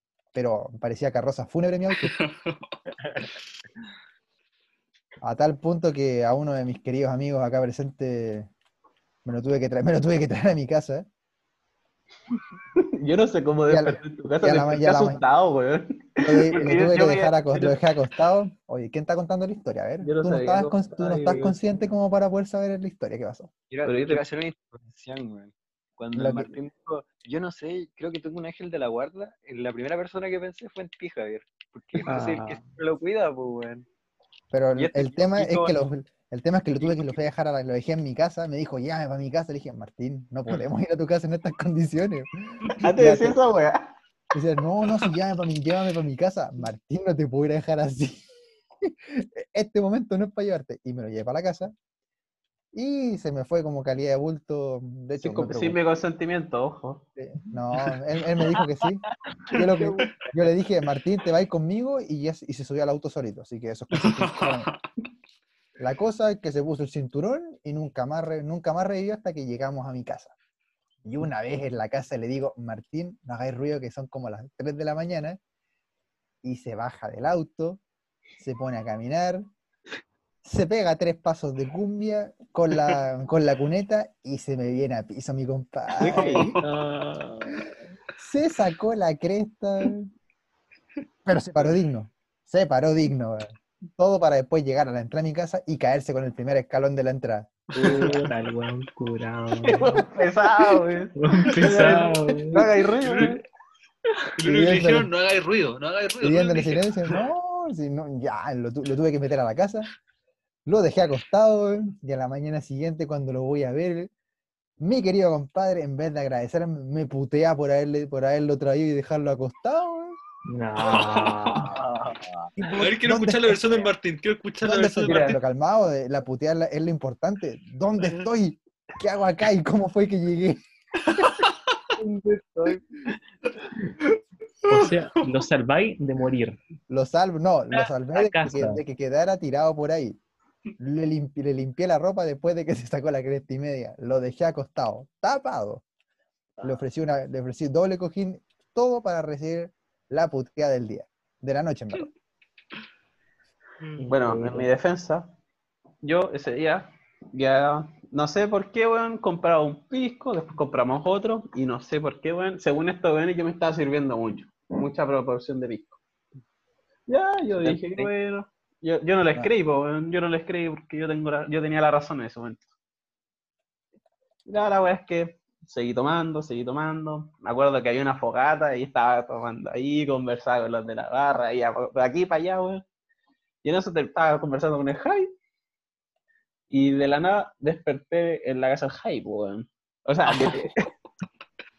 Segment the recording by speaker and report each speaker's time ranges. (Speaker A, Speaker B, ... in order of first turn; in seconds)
Speaker A: 0.3-2.2, 5.2-8.5, 9.2-11.1, 13.7-15.2, 16.2-23.5, 26.1-26.5, 34.5-43.4, 44.3-48.3, 48.8-51.7, 52.7-55.8, 57.2-64.7, 65.8-70.3, 71.0-75.4, 76.4-77.8, 78.4-79.5, 80.4-86.6, 88.2-90.1, 91.2-97.8, 104.4-105.1, 106.2-109.9, 110.7-114.1, 114.8-120.2, 122.6-123.6, 124.6-130.6, 136.9-140.2, 140.8-145.8, 146.6-152.1
Speaker B: 2.0-2.8, 63.9-64.8, 82.7-83.0, 86.2-86.6, 97.7-98.1, 101.6-101.9, 103.0-103.3, 104.4-107.2, 120.8-121.6, 122.7-125.4, 131.1-131.5, 134.7-135.4, 190.3-190.7
Speaker C: 12.8-17.8, 20.0-21.6, 23.8-24.2, 42.8-43.9, 55.2-57.0, 86.0-86.6, 99.6-103.4, 154.1-155.4, 156.0-166.0, 167.1-172.7, 174.4-182.8, 183.6-185.3, 186.7-190.9
Speaker D: 23.7-33.9, 34.8-35.8, 121.6-122.5, 167.6-168.1
Speaker E: 32.0-32.7, 86.6-87.7, 97.8-100.1, 101.2-102.7, 120.5-121.8, 125.0-125.3, 134.7-136.6, 138.1-138.8, 154.0-154.7